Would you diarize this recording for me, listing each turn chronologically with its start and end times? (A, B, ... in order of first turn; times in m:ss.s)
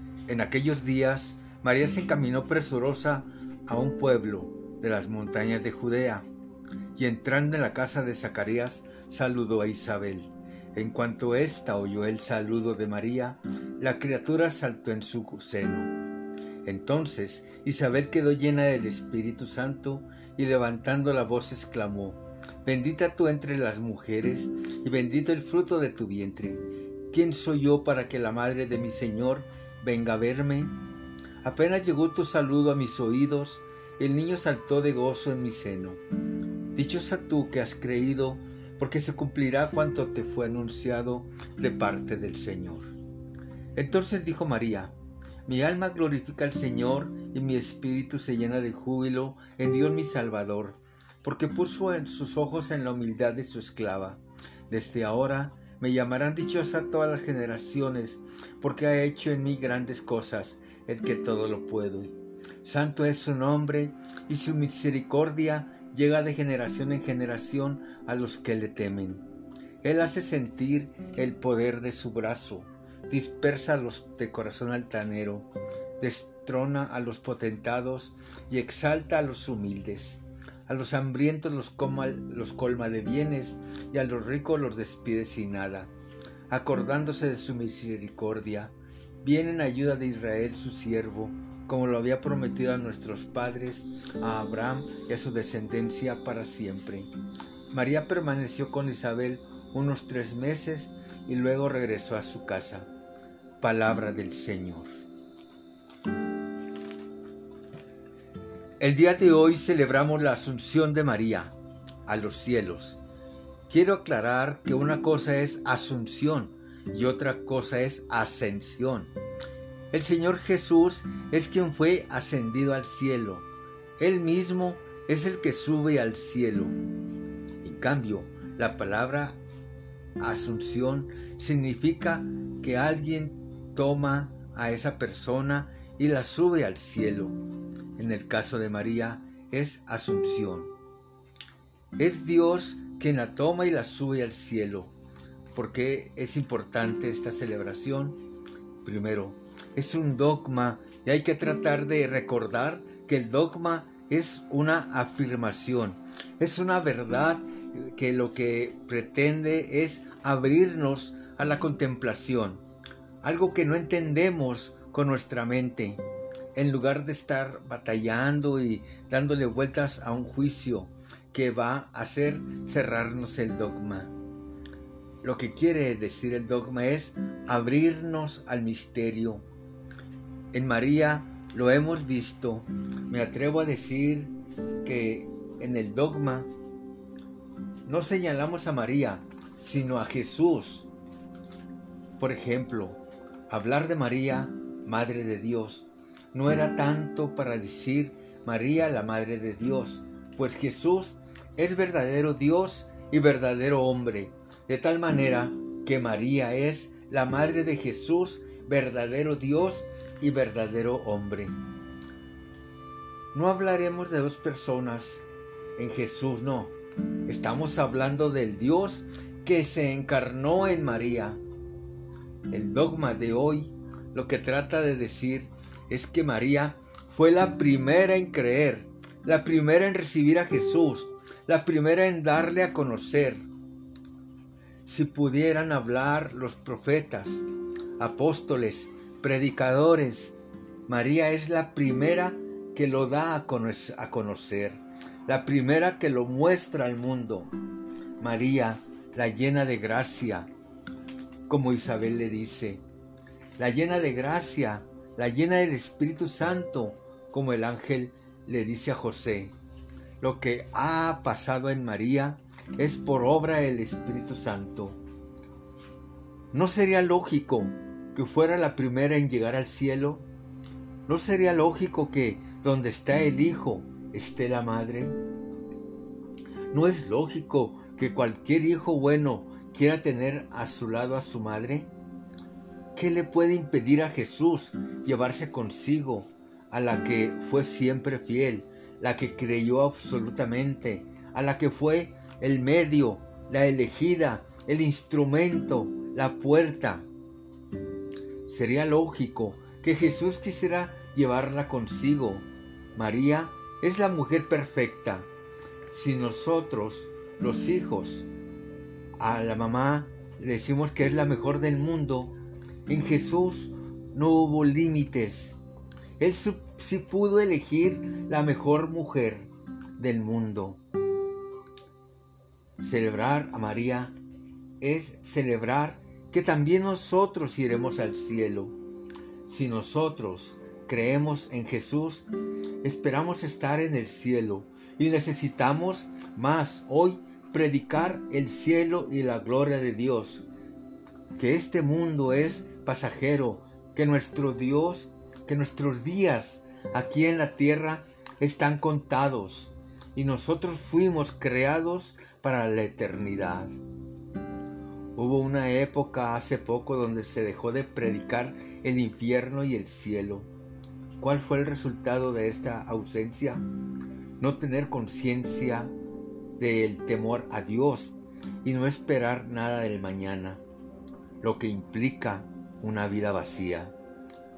0:00.2-0:06.2 A
0:06.9-0:15.9 A
0:16.6-0:30.8 A
0:31.4-0:36.0 A
0:36.7-0:42.9 A
0:43.7-0:44.9 A
0:45.4-1:09.2 A
1:09.8-1:25.9 A
1:26.5-1:37.1 A
1:37.7-1:42.9 A
1:43.6-1:45.0 A
1:48.8-1:53.0 A
1:53.7-1:59.1 A
1:59.9-2:03.5 A
2:04.0-2:06.8 A
2:07.6-2:09.4 A
2:10.2-2:17.4 A
2:18.0-2:20.7 A
2:22.0-2:24.9 A
2:25.5-2:28.2 A
2:28.8-2:42.6 A
2:43.2-2:46.0 A
2:46.5-2:54.1 A
2:55.2-2:59.4 A
3:00.5-3:06.5 A
3:07.8-3:10.9 A
3:12.2-3:31.6 A
3:33.3-3:35.2 A
3:35.8-3:36.8 A
3:37.3-3:41.4 A
3:42.5-3:53.4 A
3:54.8-3:57.4 A
3:58.0-4:00.3 A
4:00.9-4:07.5 A
4:08.2-4:10.5 A
4:11.5-4:12.8 A
4:13.6-4:19.5 A
4:20.2-4:25.0 A
4:26.5-4:30.3 A
4:31.0-4:35.2 A
4:36.7-4:41.9 A
4:42.9-4:57.1 A
4:58.4-5:05.3 A
5:05.9-5:08.3 A
5:09.2-5:12.3 A
5:12.9-5:15.6 A
5:16.2-5:20.8 A
5:22.8-5:24.1 A
5:24.8-5:28.7 A
5:29.4-5:32.3 A
5:32.8-5:40.4 A
5:41.3-5:53.8 A
5:55.1-6:00.5 A
6:01.2-6:03.6 A
6:04.4-6:05.9 A
6:06.6-6:10.6 A
6:11.4-6:13.9 A